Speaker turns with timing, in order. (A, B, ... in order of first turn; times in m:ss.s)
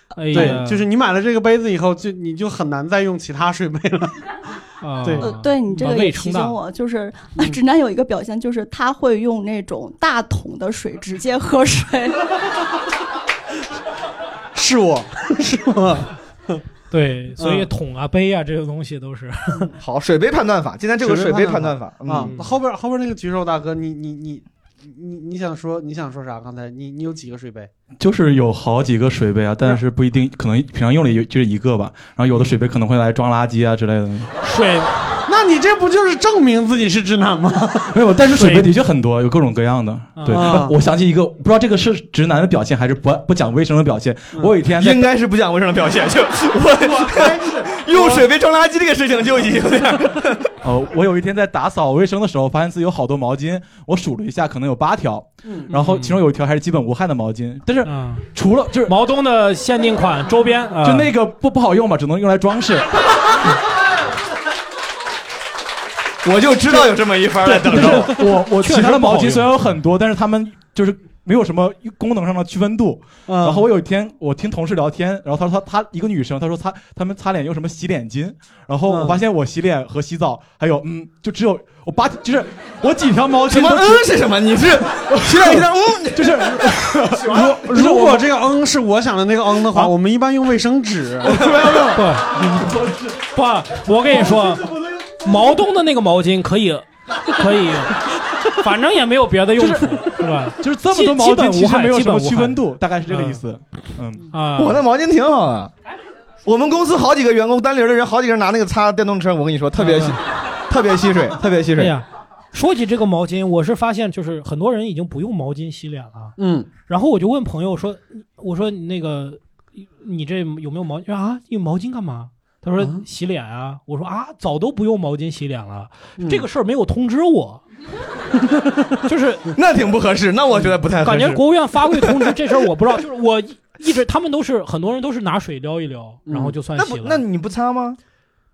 0:00.2-0:00.9 A
0:00.3-0:04.2 B
0:04.8-0:06.6 A
0:05.0-0:05.4 B
0:05.2-0:12.1 C
0:14.5-0:16.6 B
0:16.9-0:19.7 A
0:17.4-0:17.7 B
0:19.8-0:22.3 D
0:21.0-0:27.7 B
0:22.2-0:22.6 A
0:28.0-0:34.3 E
0:34.4-0:34.9 A
0:35.3-0:38.0 B
0:37.9-0:45.1 E
0:38.2-0:38.7 A
0:40.2-0:40.5 A
0:40.3-0:40.8 B
0:44.7-0:50.5 D
0:46.8-0:48.2 B
0:50.6-0:59.0 E
0:55.4-0:55.7 B
0:55.7-0:56.2 A
0:57.8-0:58.3 A
0:58.8-1:01.1 A
1:00.8-1:02.9 E
1:06.2-1:08.2 D
1:07.5-1:24.2 E
1:07.7-1:09.5 A
1:13.3-1:13.7 B
1:18.9-1:19.2 B
1:23.5-1:26.8 D
1:25.2-1:28.3 E
1:27.2-1:31.6 B
1:31.4-1:31.8 E
1:31.4-1:32.0 D
1:31.9-1:34.7 A
1:35.2-1:43.4 A
1:39.6-1:44.3 E
1:44.3-1:44.8 A
1:44.6-1:45.7 D
1:46.4-1:52.0 D
1:49.7-1:50.2 A
1:51.8-1:56.4 A
1:56.4-1:56.7 B
1:56.9-2:07.6 A
2:02.8-2:03.0 B
2:06.2-2:06.5 B
2:09.0-2:09.5 A
2:09.5-2:11.4 D
2:11.0-2:17.2 A
2:16.3-2:16.6 B
2:16.8-2:18.0 D